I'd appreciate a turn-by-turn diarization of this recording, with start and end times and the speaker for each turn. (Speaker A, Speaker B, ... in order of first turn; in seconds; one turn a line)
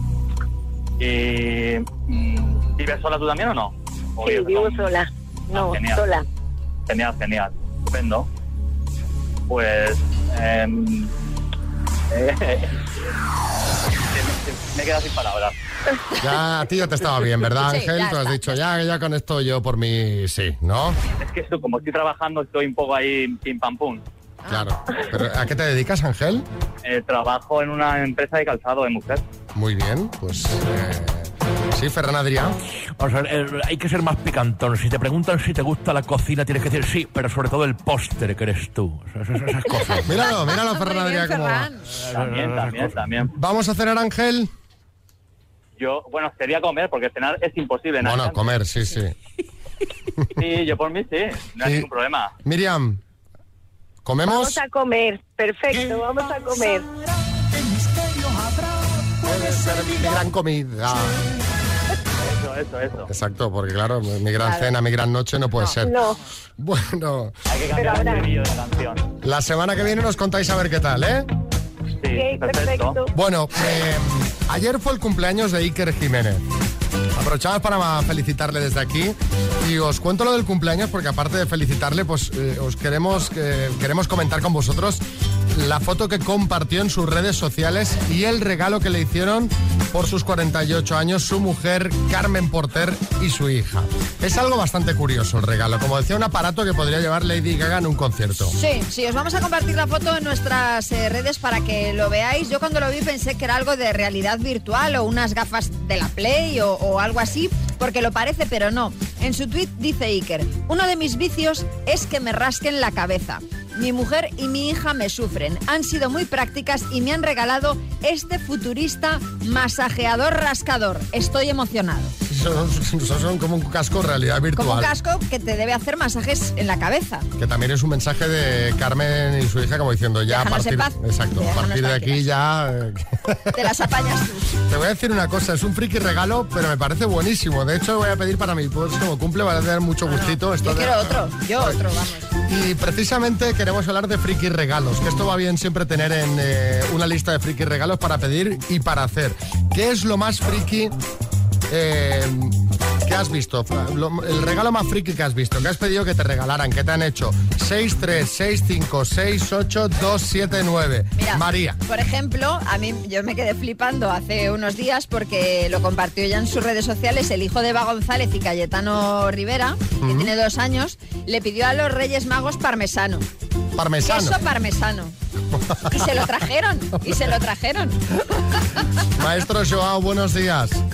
Speaker A: 1.0-4.9
Speaker B: 4.2-6.2
Speaker A: 5.5-6.1
Speaker A: 6.9-8.3
Speaker A: 9.5-11.1
Speaker A: 12.1-12.9
Speaker A: 14.1-15.6
Speaker C: 16.2-21.0
Speaker D: 17.5-18.6
Speaker A: 21.2-24.0
Speaker C: 24.5-26.4
Speaker A: 26.8-29.2
Speaker C: 29.5-32.6
Speaker E: 33.0-40.3
Speaker C: 39.7-41.7
Speaker D: 40.5-41.9
Speaker E: 42.0-43.0
Speaker A: 42.1-43.3
Speaker C: 43.3-44.5
Speaker A: 45.8-48.5
Speaker C: 48.0-49.1
Speaker A: 50.4-52.3
Speaker C: 51.6-51.9
Speaker C: 52.4-53.0
Speaker C: 54.0-54.6
Speaker B: 54.2-56.9
Speaker C: 59.2-61.2
Speaker A: 62.2-63.1
Speaker C: 63.1-66.0
Speaker D: 64.4-64.7
Speaker B: 65.8-66.2
Speaker C: 66.6-67.3
Speaker A: 67.5-69.1
Speaker B: 67.7-68.3
Speaker C: 69.2-71.3
Speaker A: 72.0-73.0
Speaker B: 72.1-73.1
Speaker C: 73.1-76.4
Speaker C: 77.2-98.5
Speaker D: 98.5-122.1
Speaker C: 122.2-124.9
Speaker D: 124.5-127.2
Speaker C: 127.4-133.6
Speaker D: 130.3-132.2
Speaker D: 133.5-134.6
Speaker C: 134.7-141.8
Speaker D: 140.1-142.3
Speaker C: 142.5-150.9
Speaker C: 151.7-161.8
Speaker D: 161.2-173.2
Speaker C: 170.0-170.3
Speaker C: 173.8-174.4
Speaker D: 174.0-175.1
Speaker C: 175.5-176.1
Speaker D: 175.9-178.0
Speaker C: 179.2-180.8